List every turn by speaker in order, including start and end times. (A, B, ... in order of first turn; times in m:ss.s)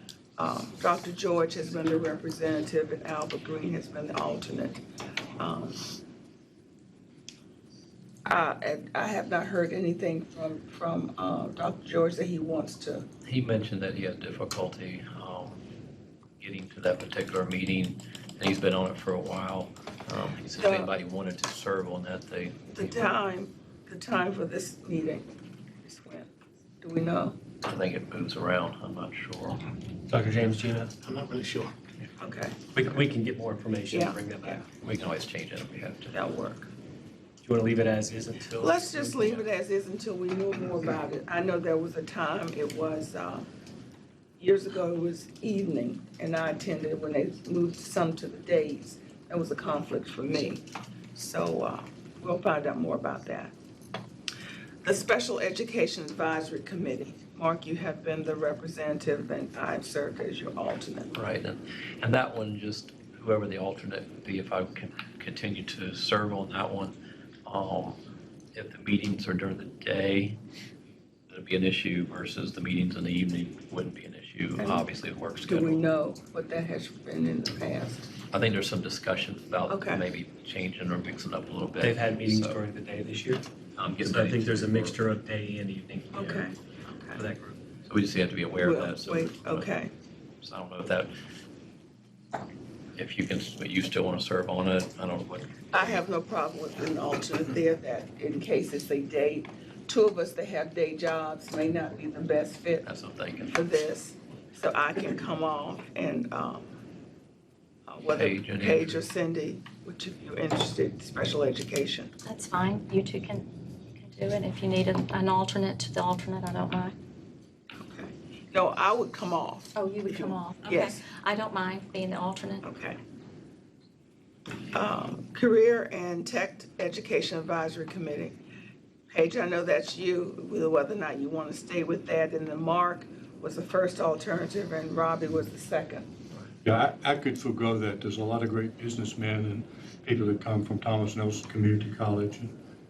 0:00.4-0:04.8 A
0:05.4-0:05.8 A
0:08.2-0:13.1 A
0:13.2-0:15.6 B
0:16.4-0:23.1 B
0:20.5-0:20.9 A
0:22.7-0:25.3 A
0:25.8-0:27.4 A
0:27.6-0:29.6 B
0:30.1-0:31.8 C
0:32.2-0:32.6 A
0:32.7-0:34.6 C
0:33.9-0:34.6 A
0:34.8-0:36.2 B
0:36.1-0:36.7 A
0:37.4-0:39.4 C
0:38.6-0:43.4 A
0:44.4-0:50.6 A
0:51.1-0:53.5 A
0:54.8-1:01.1 A
1:01.1-1:06.9 B
1:07.4-1:08.0 B
1:08.5-1:10.4 B
1:11.3-1:15.8 B
1:14.6-1:14.9 A
1:15.4-1:18.1 A
1:18.3-1:22.6 B
1:19.7-1:20.0 A
1:21.8-1:23.4 C
1:23.8-1:25.0 B
1:24.0-1:26.5 C
1:26.1-1:27.2 A
1:27.1-1:27.6 C
1:27.8-1:29.7 B
1:28.6-1:29.9 A
1:30.4-1:31.1 B
1:33.0-1:36.0 B
1:35.7-1:42.8 A
1:42.8-1:43.5 B
1:43.4-1:46.7 A
1:47.9-1:52.1 A
1:48.1-1:49.0 B
1:52.2-1:56.9 D
1:57.8-2:01.0 A
1:59.7-2:02.6 D
2:02.6-2:03.0 A
2:04.7-2:08.4 A
2:09.1-2:16.1 A
2:16.6-2:22.5 E